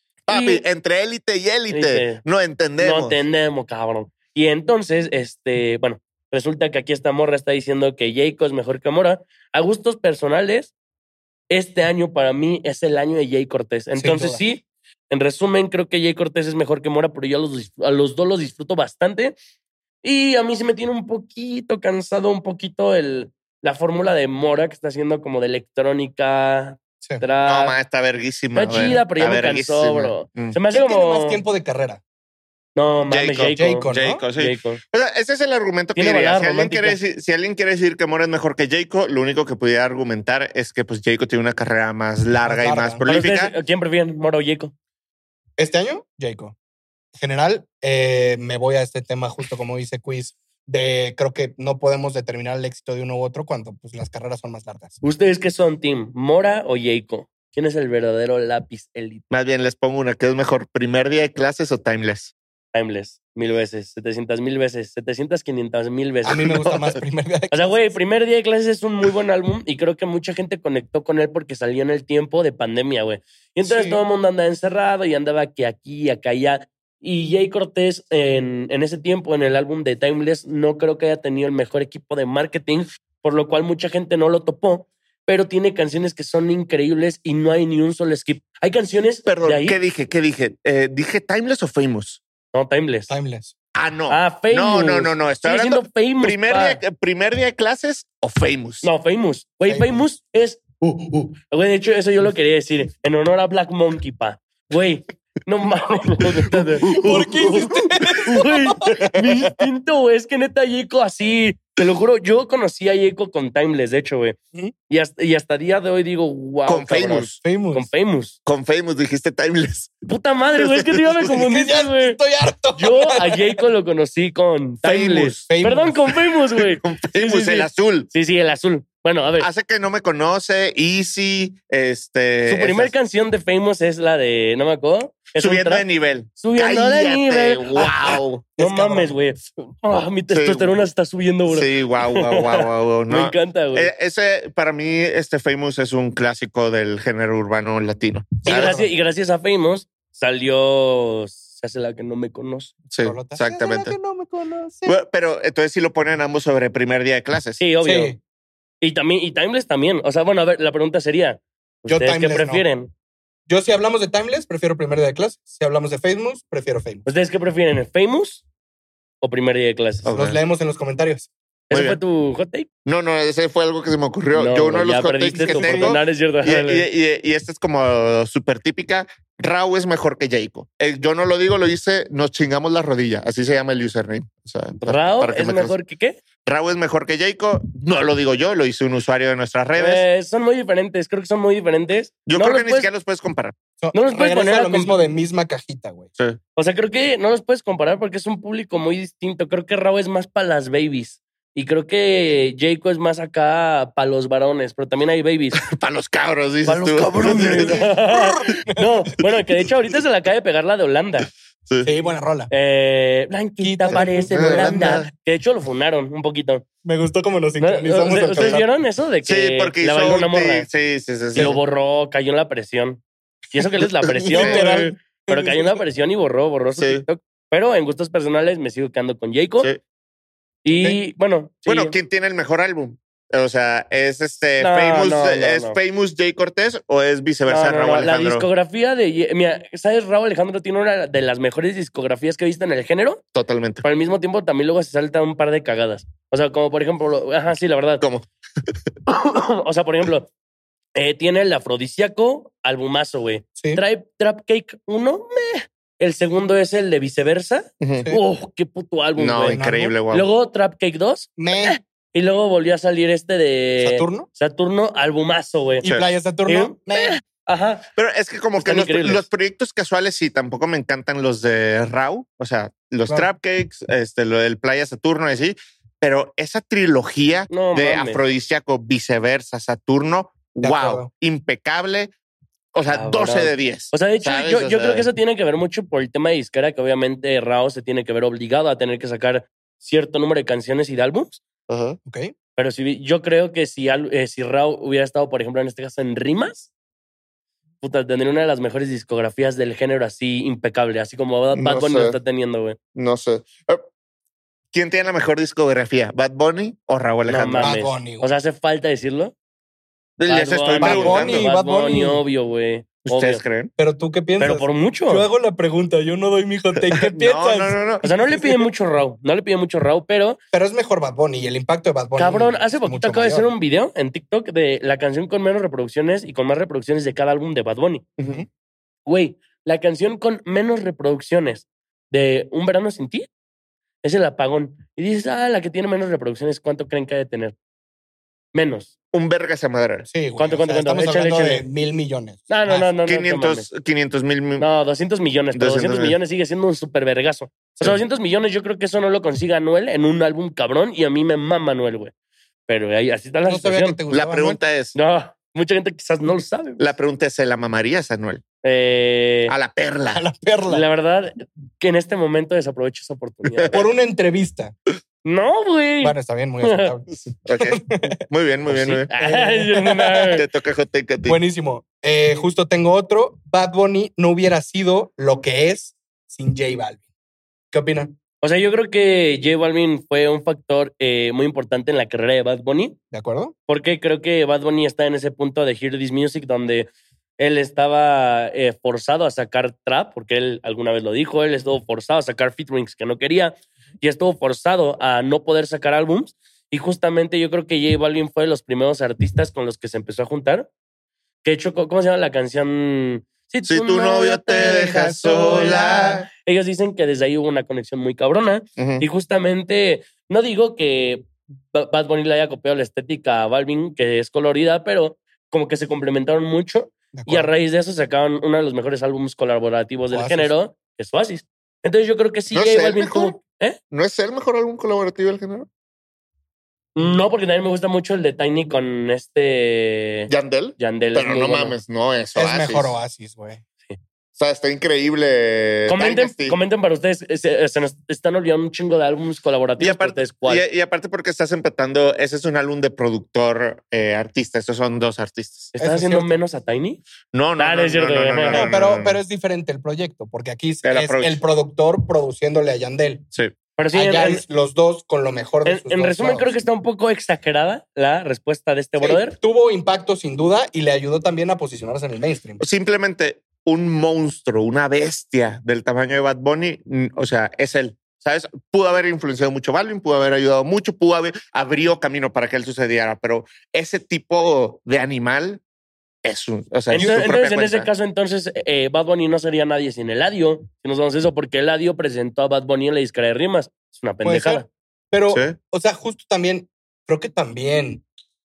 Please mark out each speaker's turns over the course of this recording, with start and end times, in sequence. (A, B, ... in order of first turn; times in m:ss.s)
0:00.3-0:00.6 A
0:00.3-0:03.2 B
0:01.7-0:02.2 A
0:02.8-0:10.7 A
0:11.5-0:19.3 A
0:14.0-0:14.4 C
0:20.0-0:27.7 A
0:27.4-0:30.6 B
0:28.5-0:31.4 A
0:30.7-0:32.0 C
0:32.8-0:34.8 A
0:33.1-0:43.5 B
0:33.5-0:34.2 C
0:36.0-0:37.0 A
0:42.4-0:43.0 C
0:43.0-0:44.7 A
0:45.6-0:46.5 C
0:47.1-0:55.0 C
0:55.0-0:59.2 A
0:59.3-1:02.3 B
1:02.7-1:06.7 A
1:06.2-1:07.6 C
1:07.5-1:29.8 A
1:13.6-1:14.0 C
1:29.2-1:32.2 B
1:32.5-1:33.1 A
1:33.1-1:33.5 C
1:33.7-1:38.9 B
1:34.1-1:36.8 A
1:38.8-1:54.4 A
1:39.6-1:40.0 C
1:46.9-1:49.5 C
1:54.9-1:58.4 A
1:56.6-1:57.4 B
1:57.4-1:57.9 C
1:58.4-2:00.0 B
2:00.1-2:02.2 A
2:00.6-2:01.3 B
2:01.3-2:03.6 C
2:02.7-2:09.5 A
2:04.8-2:05.5 B
2:05.5-2:06.0 C
2:06.8-2:08.1 B
2:09.4-2:12.9 B
2:12.4-2:15.8 A
2:15.4-2:18.5 B
2:16.4-2:23.9 A
2:18.6-2:19.1 C
2:20.3-2:20.8 B
2:21.4-2:28.8 B
2:28.4-2:32.7 A
2:28.6-2:28.9 C
2:32.9-2:33.9 B
2:33.0-2:34.9 C
2:34.8-2:37.6 B
2:37.6-2:38.1 A
2:37.8-2:38.2 C
2:38.8-2:42.9 A
2:41.8-2:42.6 C
2:43.5-2:47.0 C
2:47.0-2:48.4 A
2:49.2-2:50.1 A
2:50.0-2:50.4 B
2:50.1-2:51.3 C
2:51.7-2:52.7 A
2:51.7-2:52.0 B
2:52.8-3:05.7 B
2:54.3-2:56.8 A
2:55.3-2:56.0 C
3:04.8-3:06.2 A
3:06.4-3:10.0 B
3:09.8-3:12.9 A
3:12.3-3:13.6 B
3:13.8-3:16.1 C
3:13.9-3:15.0 A
3:16.6-3:25.6 A
3:25.6-3:27.8 B
3:26.6-3:31.3 A
3:27.2-3:28.9 C
3:31.8-3:32.5 C
3:32.5-3:36.6 A
3:33.6-3:35.0 C
3:33.9-3:35.1 B
3:36.8-3:38.7 C
3:37.6-3:40.7 A
3:39.2-3:41.6 B
3:41.3-3:43.0 A
3:43.5-3:49.7 A
3:44.0-3:44.8 B
3:44.3-3:45.8 C
3:46.7-3:47.0 B
3:50.6-3:52.0 A
3:51.7-3:58.4 B
3:54.6-3:55.8 A
3:57.4-4:03.2 A
4:03.3-4:03.8 B
4:03.8-4:08.0 A
4:08.0-4:08.7 B
4:09.1-4:10.3 A
4:11.0-4:25.8 A
4:13.6-4:13.8 C
4:17.8-4:18.1 B
4:19.2-4:20.3 B
4:19.5-4:19.9 C
4:21.4-4:21.8 C
4:23.8-4:24.3 C
4:25.8-4:27.2 C
4:26.4-4:27.8 A
4:28.0-4:42.1 B
4:28.6-4:29.2 A
4:37.5-4:38.2 A
4:40.6-4:41.1 C
4:42.7-4:45.1 B
4:42.9-4:51.4 A
4:51.7-4:52.0 B
4:52.0-4:52.3 C
4:52.6-4:56.7 A
4:57.8-5:02.8 A
5:01.5-5:02.2 B
5:02.9-5:03.8 B
5:04.7-5:07.7 B
5:07.3-5:09.3 A
5:07.6-5:08.3 C
5:10.2-5:11.5 B
5:10.3-5:13.4 A
5:10.8-5:12.2 C
5:13.0-5:13.7 B
5:13.8-5:17.8 C
5:14.4-5:15.2 A
5:16.9-5:18.0 B
5:18.0-5:20.4 A
5:20.5-5:23.5 C
5:22.2-5:28.1 A
5:28.2-5:28.4 B
5:29.0-5:33.3 A
5:34.0-5:37.6 A
5:38.5-5:38.9 A
5:39.1-5:40.1 B
5:40.1-5:42.9 C
5:40.4-5:41.6 A
5:42.5-5:43.7 A
5:43.0-5:44.7 B
5:44.6-5:52.1 A
5:45.5-5:46.2 B
5:52.7-5:54.0 A
5:53.4-5:54.6 C
5:54.1-5:55.0 B
5:54.9-5:56.9 A
5:56.8-5:58.4 B
5:58.6-5:59.5 A
5:59.5-6:00.2 B
6:00.1-6:00.8 C
6:00.7-6:03.8 A
6:03.5-6:03.7 B
6:03.7-6:04.7 C
6:05.2-6:06.9 A
6:06.0-6:08.2 C
6:07.2-6:09.1 B
6:08.7-6:10.4 A
6:09.1-6:10.4 C
6:10.3-6:11.4 B
6:11.2-6:17.0 C
6:17.7-6:18.1 C
6:18.4-6:23.0 A
6:23.1-6:23.5 C
6:23.7-6:26.9 A
6:27.4-6:40.7 A
6:41.4-7:03.8 A
6:43.6-6:46.3 B
6:48.8-6:49.0 B
6:57.1-6:57.5 C
7:00.1-7:00.5 C
7:02.5-7:03.4 B
7:03.9-7:05.7 B
7:06.9-7:11.8 A
7:10.3-7:12.9 B
7:12.4-7:13.6 C
7:14.4-7:16.6 B
7:15.9-7:20.6 A
7:19.8-7:25.7 B
7:25.7-7:27.0 A
7:25.8-7:26.4 C
7:27.3-7:29.2 B
7:27.6-7:28.7 A
7:28.5-7:33.2 C
7:30.8-7:31.4 B
7:33.8-7:34.4 A
7:33.9-7:36.6 C
7:35.6-7:39.4 A
7:39.0-7:42.6 C
7:42.6-7:55.6 B
7:56.2-7:57.9 B
7:56.9-8:04.6 A
7:57.0-7:57.2 C
8:04.2-8:08.0 C
8:05.3-8:05.6 B